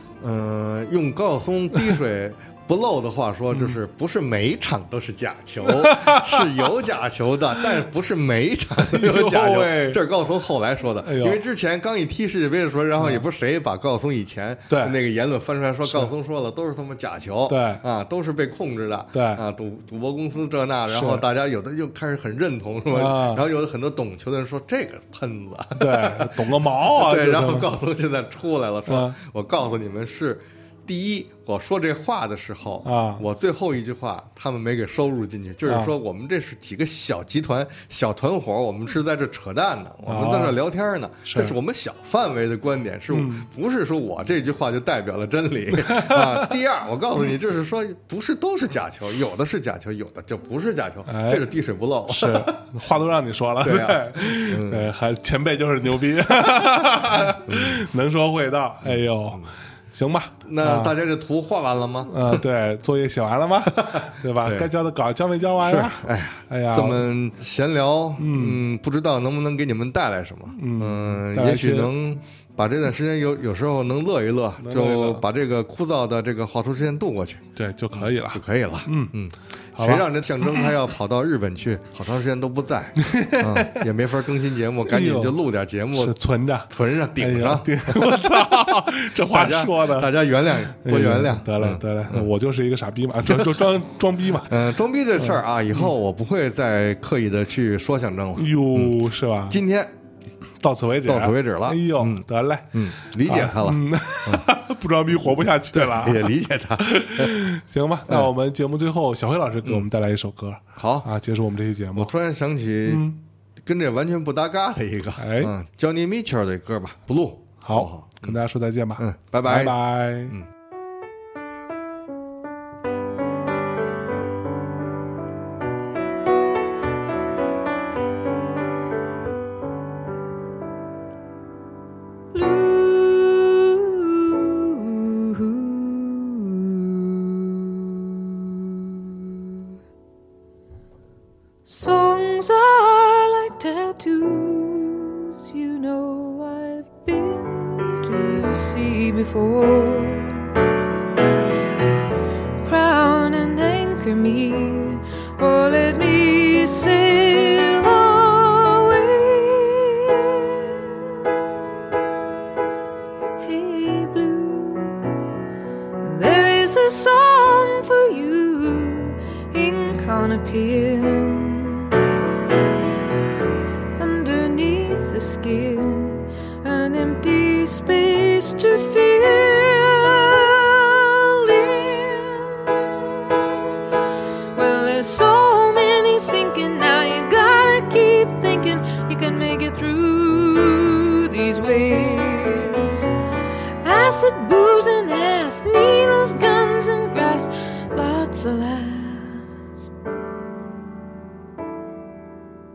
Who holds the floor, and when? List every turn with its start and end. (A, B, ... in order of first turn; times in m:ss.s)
0:00.2-0:52.7 A
0:05.6-0:06.4 B
0:08.8-0:10.0 B
0:11.0-0:11.4 B
0:14.7-0:15.0 B
0:15.8-0:16.1 B
0:17.5-0:17.8 B
0:19.1-0:19.4 B
0:20.9-0:21.2 B
0:22.9-0:23.4 B
0:25.8-0:27.7 B
0:28.9-0:29.2 B
0:32.8-0:33.2 B
0:35.6-0:35.9 B
0:40.0-0:40.6 B
0:41.2-0:41.5 B
0:43.1-0:43.5 B
0:45.7-0:46.5 B
0:51.1-0:51.5 B
0:52.1-1:01.0 B
0:53.6-0:54.9 A
0:57.4-0:57.8 A
0:58.8-0:59.5 A
1:00.4-1:02.4 A
1:02.0-1:07.0 B
1:03.7-1:04.7 A
1:05.6-1:26.2 A
1:08.2-1:08.6 B
1:10.5-1:12.0 B
1:14.6-1:15.2 B
1:17.6-1:19.1 B
1:19.7-1:20.7 B
1:23.0-1:23.9 B
1:24.8-1:25.4 B
1:25.9-1:35.9 B
1:26.7-1:28.3 A
1:29.2-1:32.3 A
1:33.3-1:33.5 A
1:34.4-1:39.9 A
1:38.4-1:39.6 B
1:40.6-1:52.1 B
1:41.0-1:44.5 A
1:45.7-1:47.4 A
1:50.8-1:51.1 A
1:51.9-1:58.4 A
1:52.8-1:53.2 B
1:55.2-1:55.5 B
1:57.6-2:00.3 B
1:59.0-2:00.5 A
2:12.3-2:19.7 C
2:21.6-2:30.5 C
2:32.6-2:41.5 C
2:43.4-2:45.1 C
2:46.0-2:52.0 C
2:54.0-3:03.8 C
3:04.5-3:13.1 C
3:13.8-3:19.5 C